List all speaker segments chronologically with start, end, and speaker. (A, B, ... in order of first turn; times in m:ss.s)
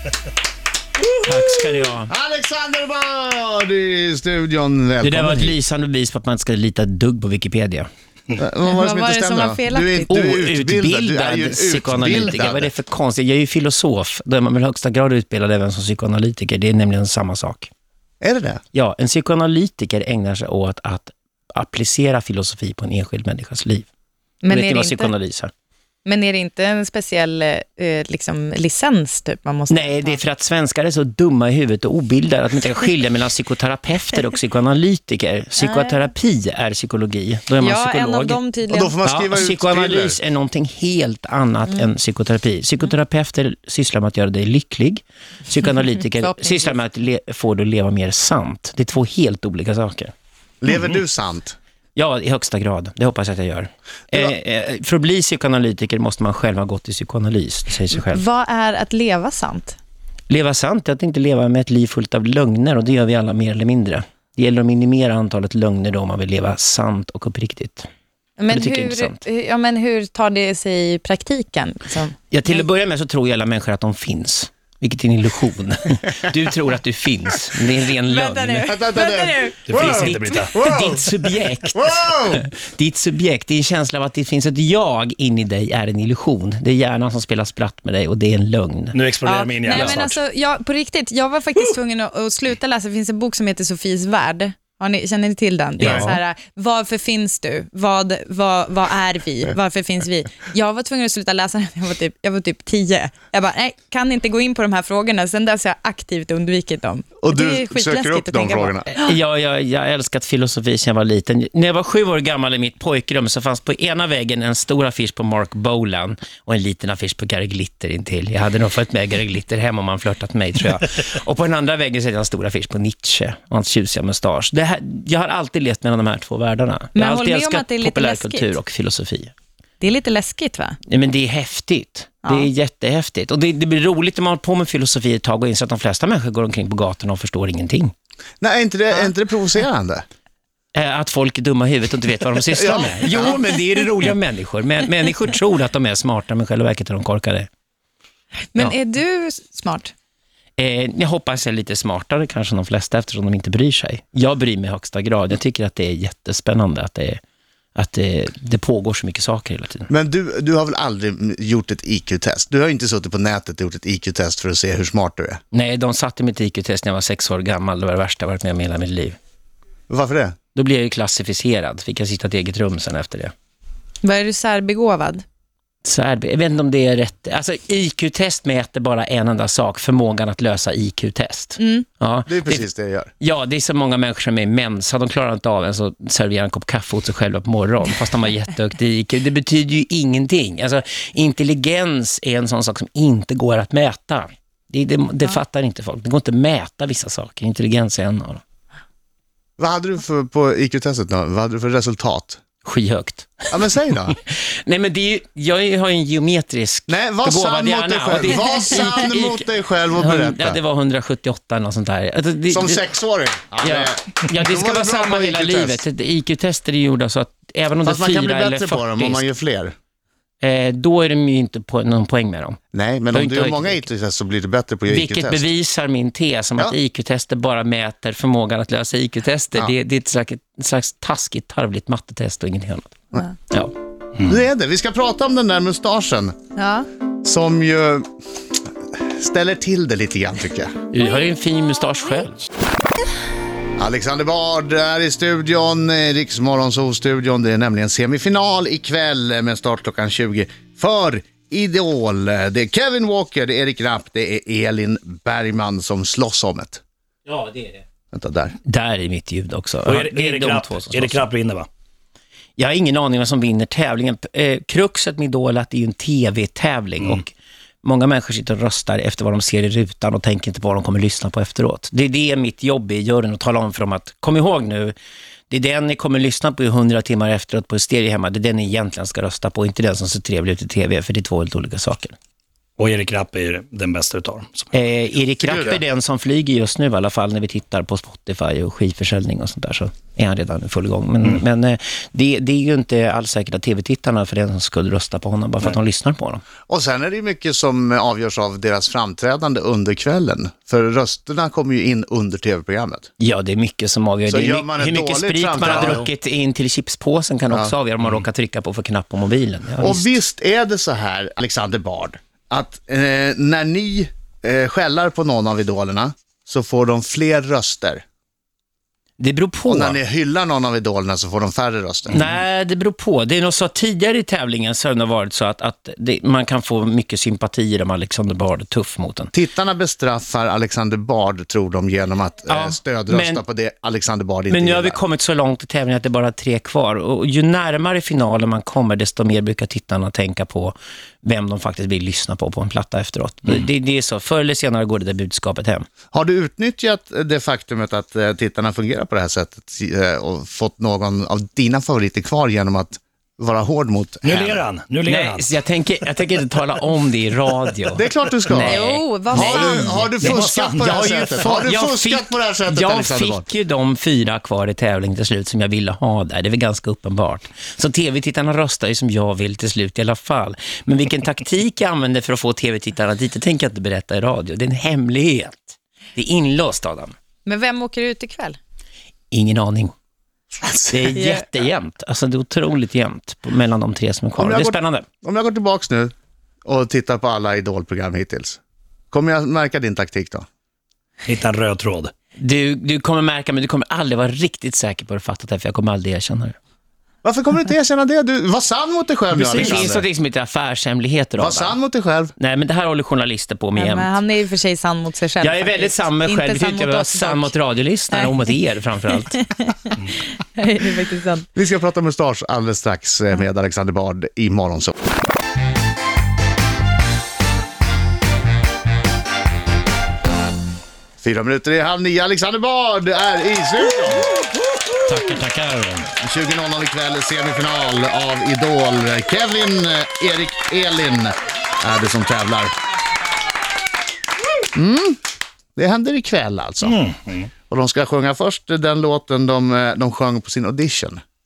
0:01.2-0:02.1 A
0:02.1-0:05.5 B
0:05.0-0:07.9 A
0:08.4-0:12.7 B
0:08.6-0:10.1 C
0:10.1-0:17.7 A
0:18.2-0:18.6 B
0:18.7-0:23.9 A
0:24.4-0:25.1 C
0:24.5-0:25.5 A
0:26.0-0:30.2 C
0:29.7-0:38.4 A
0:35.6-0:36.0 C
0:37.6-0:38.9 C
0:38.7-0:40.2 B
0:39.0-0:50.1 A
0:46.3-0:46.7 C
0:50.6-0:51.6 B
0:52.0-0:58.2 A
0:57.9-0:59.8 C
1:00.3-1:07.9 A
1:08.4-1:12.2 C
1:08.5-1:09.2 A
1:12.3-1:18.7 A
1:18.0-1:19.6 C
1:18.7-1:21.0 B
1:19.7-1:20.5 D
1:19.8-1:29.0 A
1:21.7-1:22.4 B
1:28.9-1:30.2 D
1:29.2-1:48.8 C
1:29.7-1:30.0 A
1:35.8-1:36.2 A
1:35.8-1:36.1 D
1:47.2-1:48.9 B
1:48.9-2:09.3 A
2:06.9-2:08.5 C
2:09.8-2:10.8 C
2:10.9-2:17.9 A
2:18.4-2:20.0 B
2:20.7-2:27.5 A
2:22.5-2:24.1 B
2:28.5-2:29.9 C
2:30.6-2:37.2 A
2:37.8-2:39.9 A
2:39.9-2:45.4 B
2:45.5-2:49.2 A
2:49.9-2:50.4 B
2:50.5-2:53.3 A
2:54.0-2:55.2 C
2:55.8-3:02.6 A
3:01.6-3:01.8 C
3:02.3-3:03.1 B
3:03.2-3:18.4 A
3:19.6-3:22.4 B
3:22.6-3:23.5 A
3:23.5-3:24.2 B
3:24.2-3:29.4 A
3:26.9-3:30.6 B
3:29.9-3:32.9 A
3:32.5-3:35.8 B
3:33.6-3:39.2 A
3:37.8-3:39.7 B
3:40.4-3:42.6 A
3:42.7-3:45.5 B
3:43.1-3:43.8 A
3:44.9-3:53.0 A
3:54.2-3:56.4 B
3:56.6-3:56.9 C
3:57.2-3:58.1 B
3:59.0-4:00.7 B
4:00.9-4:02.4 A
4:03.8-4:16.8 B
4:17.2-4:17.8 A
4:18.1-4:18.5 B
4:18.6-4:21.3 A
4:19.8-4:21.7 D
4:22.6-4:27.3 A
4:27.8-4:34.9 A
4:35.5-4:42.1 A
4:42.8-4:44.7 D
4:44.7-4:56.4 A
4:45.4-4:45.8 B
4:56.7-5:03.1 B
5:03.2-5:10.0 A
5:04.3-5:06.1 B
5:09.8-5:18.0 B
5:19.2-5:20.0 A
5:19.7-5:22.2 B
5:22.1-5:29.3 A
5:29.3-5:35.0 B
5:32.5-5:33.4 A
5:34.5-5:45.8 A
5:46.1-5:54.6 B
5:54.2-5:55.4 D
5:55.0-6:17.1 A
5:57.9-6:03.4 B
5:58.6-6:00.1 C
6:00.2-6:00.8 D
6:17.4-6:18.6 C
6:19.3-6:19.9 A
6:20.6-6:21.2 B
6:20.9-6:25.0 A
6:21.2-6:21.4 C
6:24.4-6:26.1 B
6:26.6-6:28.6 B
6:29.1-6:30.4 B
6:31.2-6:32.1 D
6:32.4-6:36.6 A
6:37.2-6:40.0 B
6:39.4-6:41.8 A
6:39.4-6:39.7 D
6:41.4-6:42.3 B
6:42.4-6:44.2 A
6:43.8-6:47.5 C
6:45.4-6:49.4 A
6:49.3-6:50.0 C
6:50.6-6:51.5 C
6:51.5-6:55.0 B
7:01.2-7:04.3 B
7:05.1-7:06.1 A
7:06.2-7:12.7 B
7:14.7-7:15.2 B
7:15.8-7:17.0 B
7:16.8-7:17.5 D
7:17.7-7:21.2 B